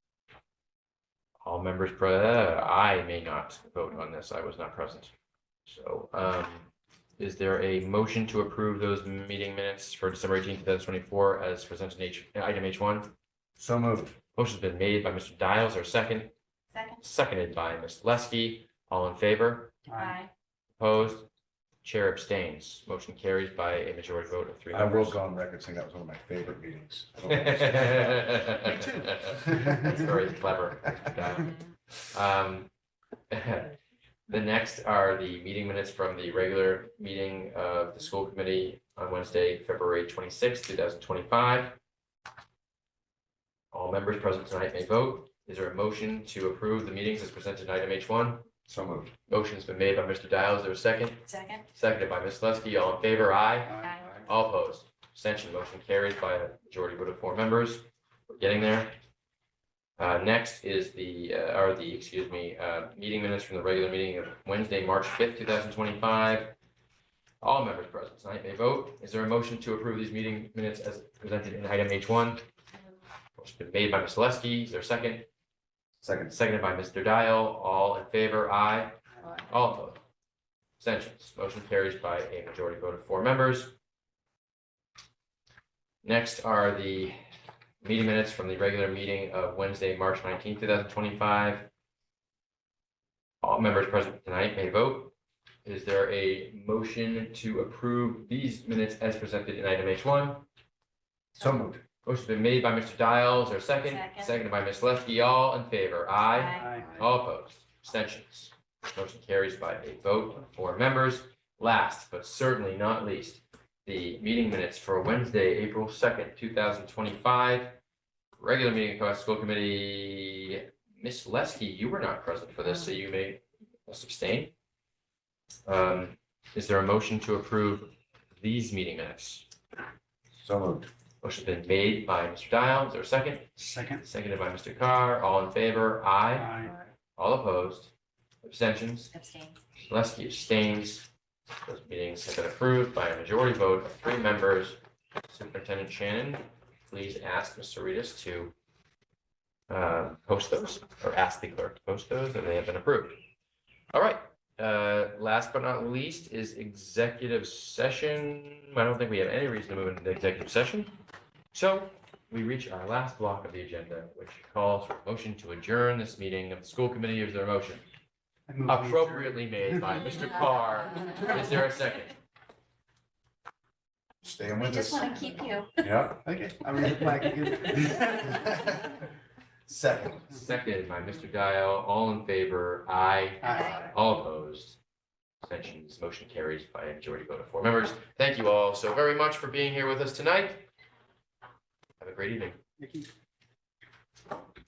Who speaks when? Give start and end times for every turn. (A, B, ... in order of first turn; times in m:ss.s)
0:01.4-0:05.1 A
0:05.7-0:13.1 A
0:13.6-0:14.2 B
0:14.3-0:16.3 A
0:16.7-0:17.0 C
0:17.0-0:19.8 A
0:19.9-0:20.2 D
0:19.9-0:20.3 C
0:20.8-0:21.3 A
0:21.8-0:25.2 A
0:24.7-0:28.6 B
0:27.3-0:31.6 A
0:28.6-0:29.0 D
0:29.3-0:29.8 B
0:32.1-0:32.7 A
0:33.3-0:33.8 A
0:34.3-0:41.8 A
0:43.7-0:48.5 A
0:48.7-0:49.1 B
0:49.3-0:59.0 A
0:51.3-0:51.6 C
0:53.7-0:54.1 D
0:53.8-0:54.2 C
1:00.0-1:06.6 A
1:07.4-1:12.4 A
1:13.4-1:15.3 A
1:16.0-1:16.3 B
1:16.3-1:20.0 A
1:20.8-1:23.7 A
1:26.0-1:27.2 A
1:27.8-1:31.7 A
1:33.4-1:40.5 A
1:41.4-1:41.8 B
1:42.0-1:57.8 A
1:43.8-1:44.4 C
1:46.3-1:46.7 C
1:46.6-1:46.9 D
1:46.8-1:47.1 B
1:58.4-2:04.5 A
2:05.7-2:09.5 A
2:10.4-2:10.9 B
2:11.2-2:16.6 A
2:13.6-2:14.0 D
2:16.4-2:16.8 D
2:17.2-2:19.1 A
2:19.1-2:19.6 C
2:19.9-2:21.1 A
2:21.6-2:28.5 A
2:29.7-2:33.2 A
2:33.9-2:40.9 A
2:41.5-2:47.8 A
2:48.5-2:50.1 D
2:48.7-2:52.2 A
2:54.2-2:55.2 B
2:54.6-2:55.8 C
2:55.8-2:56.3 B
2:56.2-2:58.6 D
2:57.7-2:59.0 B
2:59.7-3:00.5 B
3:00.3-3:04.8 A
3:03.4-3:03.9 D
3:03.4-3:03.8 C
3:05.4-3:10.7 A
3:12.0-3:12.6 A
3:12.8-3:13.1 D